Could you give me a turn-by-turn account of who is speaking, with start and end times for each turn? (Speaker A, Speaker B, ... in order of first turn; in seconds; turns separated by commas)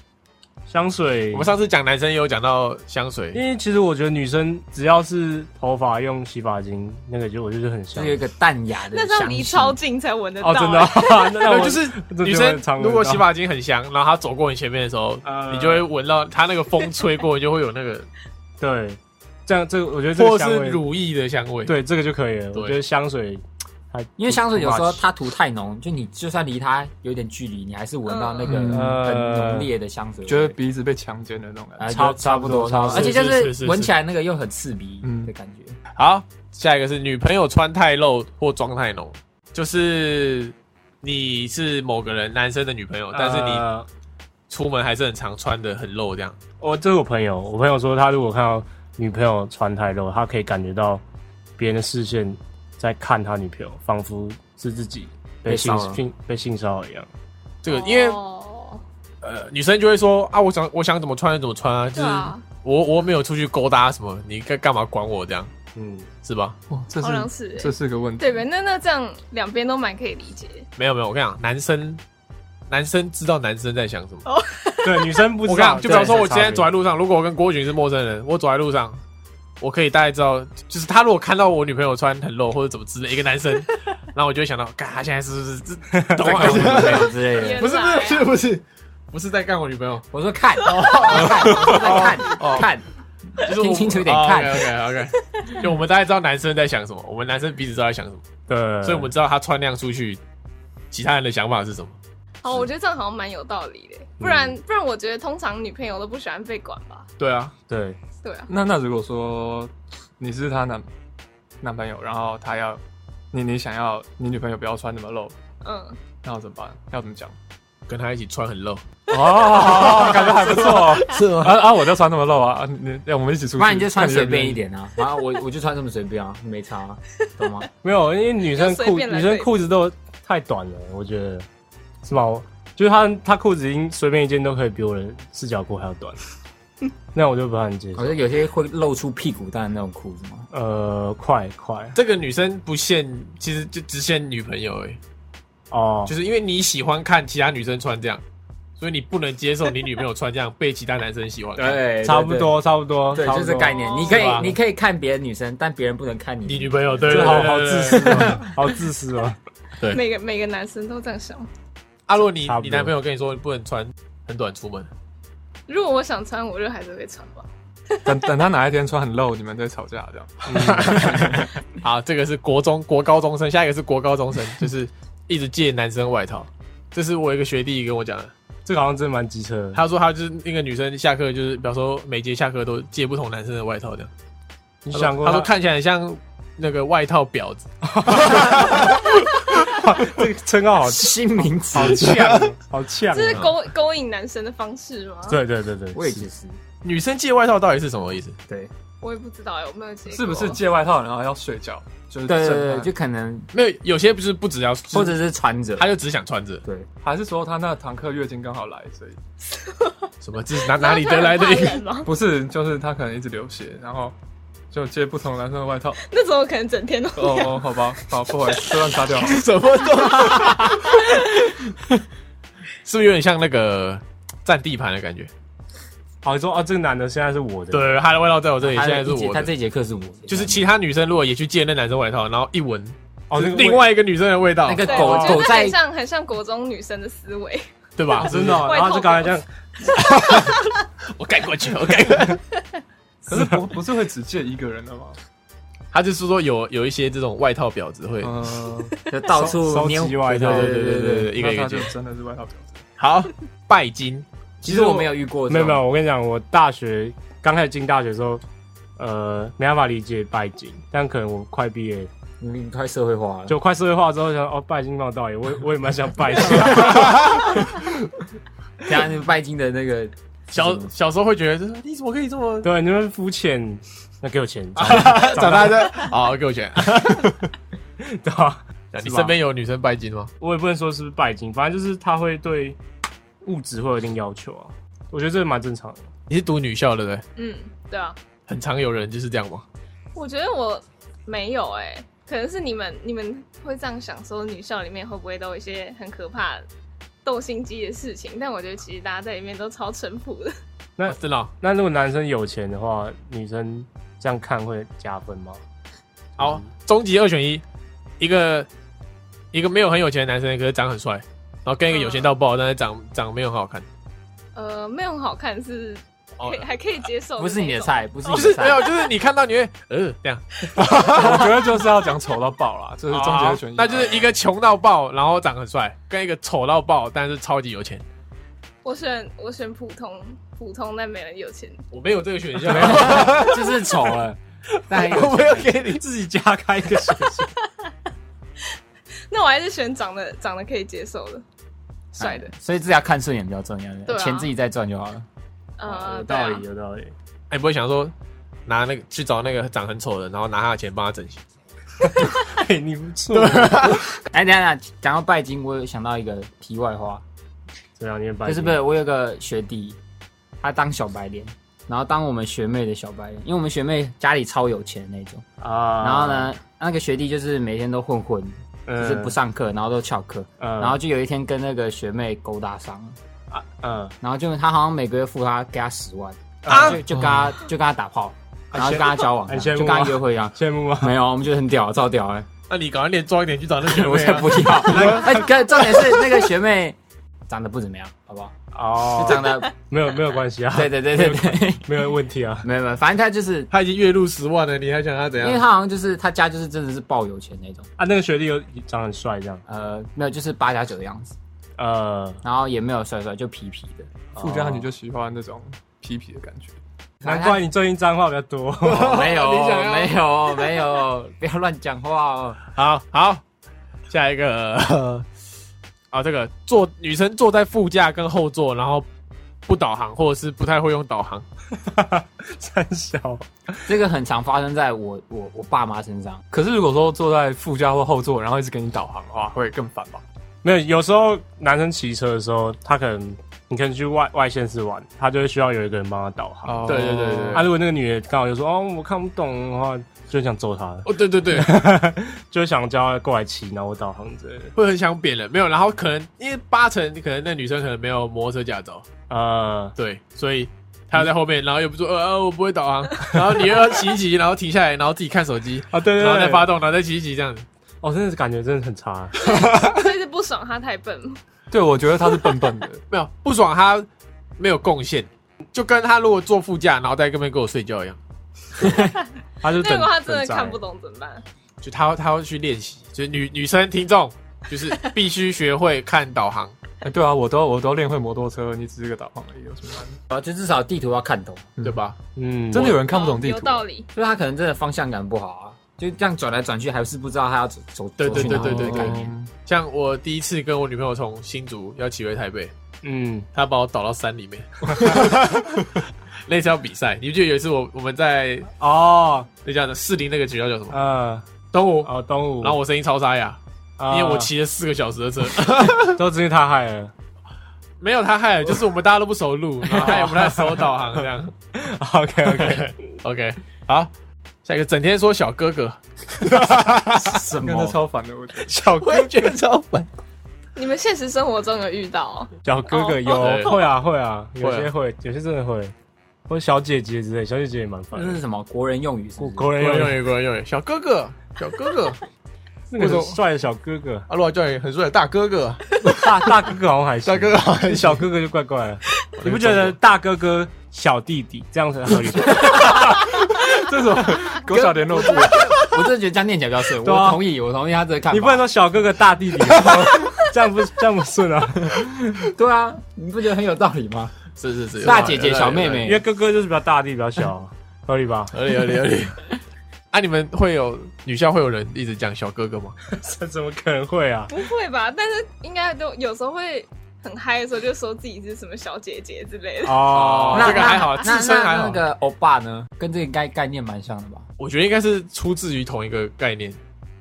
Speaker A: 0.7-1.5, Speaker B: 1.3-3.4, Speaker A: 3.3-8.2, Speaker C: 7.9-9.8, Speaker D: 8.9-11.4, Speaker A: 10.4-13.3, Speaker B: 11.4-18.1, Speaker A: 15.2-15.9, Speaker A: 18.6-20.8, Speaker B: 20.1-21.8, Speaker A: 21.7-25.0, Speaker C: 24.2-30.6, Speaker D: 28.1-28.7, Speaker E: 28.5-29.0, Speaker A: 28.7-29.7, Speaker E: 30.3-32.0, Speaker C: 31.8-35.8, Speaker A: 31.9-33.2, Speaker B: 32.9-33.9, Speaker E: 35.0-35.3, Speaker B: 36.0-43.6, Speaker A: 43.1-43.9, Speaker B: 44.5-46.4, Speaker A: 46.6-51.0, Speaker A: 51.6-57.1, Speaker C: 55.5-56.0, Speaker B: 57.6-58.2, Speaker D: 57.7-58.8, Speaker B: 59.2-65.5, Speaker D: 62.0-62.5, Speaker A: 65.8-66.1, Speaker B: 66.2-66.5, Speaker E: 66.7-68.4, Speaker D: 67.0-70.7, Speaker B: 70.8-72.0, Speaker B: 72.7-74.2, Speaker D: 74.3-75.3, Speaker A: 74.8-76.7, Speaker B: 75.4-79.0, Speaker B: 79.6-90.0, Speaker A: 86.0-86.2, Speaker C: 86.2-87.7, Speaker D: 87.2-88.3, Speaker C: 90.1-92.8, Speaker B: 90.6-92.7, Speaker C: 93.4-94.7, Speaker B: 93.4-98.2, Speaker A: 98.5-99.1, Speaker B: 98.8-100.2, Speaker B: 100.9-102.0, Speaker D: 102.4-107.1, Speaker A: 104.2-104.6, Speaker B: 107.2-107.5, Speaker A: 107.7-108.0, Speaker D: 108.2-108.5, Speaker E: 108.5-110.9, Speaker E: 111.6-112.8, Speaker E: 113.3-115.3, Speaker D: 115.6-116.0, Speaker E: 116.2-117.3, Speaker B: 117.9-118.8, Speaker E: 119.1-124.6, Speaker B: 119.5-121.7, Speaker C: 123.6-127.7, Speaker A: 127.8-131.5, Speaker D: 128.5-129.5, Speaker A: 132.0-136.2, Speaker A: 137.1-138.2, Speaker C: 137.9-140.5, Speaker A: 140.5-142.0, Speaker B: 141.9-145.0, Speaker A: 145.7-146.1, Speaker B: 146.1-148.2, Speaker B: 148.8-151.8, Speaker C: 151.6-152.6, Speaker A: 152.0-154.5, Speaker C: 153.1-158.5, Speaker D: 153.7-154.3, Speaker B: 154.1-154.5, Speaker B: 156.5-158.4, Speaker A: 157.1-159.4, Speaker D: 159.8-161.5, Speaker B: 162.1-164.9, Speaker A: 162.4-162.9, Speaker D: 165.7-167.5, Speaker E: 168.0-171.3, Speaker A: 170.5-171.5, Speaker B: 170.6-178.3, Speaker A: 178.7-179.8, Speaker B: 179.7-184.1, Speaker A: 184.8-185.5, Speaker B: 184.9-189.1, Speaker A: 187.8-193.5, Speaker C: 190.8-192.4, Speaker B: 192.0-192.5, Speaker D: 193.1-195.4, Speaker A: 195.3-196.2, Speaker C: 195.9-196.6, Speaker B: 196.8-198.4, Speaker D: 199.0-200.6, Speaker E: 200.1-202.9, Speaker C: 202.3-203.5, Speaker B: 203.5-205.2, Speaker C: 204.9-205.9, Speaker B: 205.8-206.6, Speaker E: 207.0-209.2, Speaker D: 209.5-210.1, Speaker B: 210.2-211.8, Speaker D: 210.7-212.1, Speaker E: 212.0-214.1, Speaker E: 214.7-216.0, Speaker D: 216.0-219.0, Speaker E: 217.2-219.4, Speaker B: 219.1-221.7, Speaker D: 219.9-221.5, Speaker B: 222.8-225.3, Speaker A: 226.2-228.0, Speaker B: 227.7-229.5, Speaker C: 228.6-230.7, Speaker B: 230.3-235.0, Speaker A: 233.3-233.9, Speaker C: 234.6-235.8, Speaker D: 234.8-237.7, Speaker A: 234.9-235.5, Speaker B: 238.0-238.7, Speaker A: 238.2-240.0, Speaker D: 238.6-239.4, Speaker B: 239.9-242.4, Speaker E: 243.3-245.2, Speaker A: 243.3-243.6, Speaker B: 245.9-248.4, Speaker E: 248.2-248.9, Speaker C: 249.1-251.3, Speaker A: 249.3-250.9, Speaker B: 250.3-251.9, Speaker E: 251.3-252.8, Speaker B: 253.0-254.2, Speaker C: 254.6-255.8, Speaker A: 254.7-258.4, Speaker A: 259.0-262.1, Speaker C: 262.4-263.6, Speaker A: 263.5-267.1, Speaker B: 266.6-267.6, Speaker C: 268.9-270.9, Speaker B: 270.5-272.7, Speaker A: 272.6-276.0, Speaker B: 274.8-277.5, Speaker A: 278.0-279.3, Speaker B: 278.9-280.3, Speaker A: 280.4-282.8, Speaker A: 283.4-286.1, Speaker B: 286.3-287.2, Speaker D: 287.4-288.2, Speaker B: 288.5-289.6, Speaker D: 290.2-296.7, Speaker D: 297.2-300.6, Speaker A: 301.0-305.6, Speaker B: 301.1-301.5, Speaker A: 306.4-306.6, Speaker B: 306.4-307.6, Speaker B: 308.2-308.7, Speaker B: 309.5-313.9, Speaker D: 311.9-312.3, Speaker D: 314.6-319.1, Speaker B: 316.4-316.7, Speaker C: 317.4-318.9, Speaker B: 318.3-321.7, Speaker E: 320.8-324.3, Speaker B: 323.1-328.0, Speaker D: 328.8-331.8, Speaker B: 331.9-333.7, Speaker C: 332.7-335.7, Speaker B: 334.9-336.0, Speaker A: 336.0-337.5, Speaker D: 339.3-341.4, Speaker D: 342.2-342.5, Speaker C: 342.2-345.3, Speaker D: 344.1-344.5, Speaker D: 345.8-346.6, Speaker A: 345.9-347.1, Speaker B: 347.5-348.1, Speaker B: 348.7-351.4, Speaker A: 352.0-354.0, Speaker B: 353.3-354.1, Speaker C: 354.1-357.2, Speaker A: 358.0-358.8, Speaker C: 358.5-360.0, Speaker C: 360.6-365.4, Speaker A: 365.6-366.5, Speaker C: 366.0-373.2, Speaker A: 368.9-369.4, Speaker A: 370.6-371.0, Speaker A: 373.5-374.1, Speaker C: 374.2-382.5, Speaker A: 376.6-377.0, Speaker B: 376.7-377.0, Speaker E: 377.1-377.5, Speaker A: 378.7-381.2, Speaker B: 382.7-386.2, Speaker C: 383.8-387.0, Speaker C: 387.5-388.6, Speaker A: 388.7-392.7, Speaker C: 389.1-389.7, Speaker C: 390.7-391.9, Speaker C: 392.6-393.7, Speaker B: 393.7-395.6, Speaker C: 395.4-397.9, Speaker A: 398.0-399.6, Speaker C: 399.7-401.4, Speaker A: 401.8-402.4, Speaker C: 402.4-404.1, Speaker A: 404.4-404.9, Speaker E: 404.4-406.8, Speaker C: 407.2-407.6, Speaker A: 407.2-409.2, Speaker B: 408.8-410.2, Speaker C: 408.9-412.6, Speaker B: 412.8-413.4, Speaker B: 414.1-415.3, Speaker B: 416.1-419.1, Speaker B: 419.7-421.4, Speaker A: 421.8-423.9, Speaker C: 423.9-426.4, Speaker E: 426.5-430.2, Speaker A: 430.6-444.7, Speaker E: 436.7-437.7, Speaker B: 436.9-437.7, Speaker B: 441.1-441.7, Speaker B: 444.8-449.1, Speaker A: 449.3-449.9, Speaker B: 450.0-457.7, Speaker A: 455.9-456.7, Speaker A: 458.0-459.4, Speaker D: 459.4-461.4, Speaker E: 461.7-463.0, Speaker B: 463.1-468.2, Speaker A: 469.6-470.8, Speaker D: 469.8-471.4, Speaker B: 471.8-476.8, Speaker E: 477.0-480.2, Speaker C: 480.3-481.7, Speaker B: 481.8-482.2, Speaker A: 482.4-483.0, Speaker E: 482.7-483.8, Speaker D: 482.8-484.1, Speaker C: 484.1-489.4, Speaker B: 488.2-492.7, Speaker E: 488.3-489.5, Speaker A: 493.0-493.5, Speaker B: 493.5-495.9, Speaker B: 496.4-498.7, Speaker A: 498.8-499.5, Speaker B: 499.6-501.0, Speaker A: 500.9-501.4, Speaker B: 501.7-506.2, Speaker A: 502.0-502.8, Speaker A: 504.0-504.5, Speaker A: 506.0-507.1, Speaker B: 508.0-511.5, Speaker A: 509.9-510.8, Speaker A: 511.7-512.9, Speaker B: 512.4-514.1, Speaker B: 514.6-517.4, Speaker C: 517.2-518.0, Speaker E: 517.6-518.8, Speaker B: 518.7-520.1, Speaker D: 520.8-523.8, Speaker A: 522.6-525.9, Speaker B: 523.3-523.8, Speaker B: 524.6-524.9, Speaker A: 526.5-528.4, Speaker C: 528.1-529.7, Speaker A: 529.4-530.2, Speaker B: 529.8-532.2, Speaker A: 532.9-534.3, Speaker B: 533.0-533.4, Speaker B: 534.3-536.1, Speaker A: 536.0-542.9, Speaker B: 537.2-538.2, Speaker B: 539.4-540.0, Speaker E: 542.6-545.7, Speaker C: 544.7-548.6, Speaker A: 547.0-547.4, Speaker A: 548.3-552.0, Speaker C: 552.4-554.4, Speaker B: 554.6-556.1, Speaker C: 555.0-556.2, Speaker A: 556.0-558.6, Speaker B: 558.5-559.5, Speaker B: 560.1-563.0, Speaker A: 563.1-564.5, Speaker D: 564.5-570.1, Speaker A: 569.8-571.0, Speaker B: 570.1-572.0, Speaker C: 570.5-574.5, Speaker B: 574.6-576.8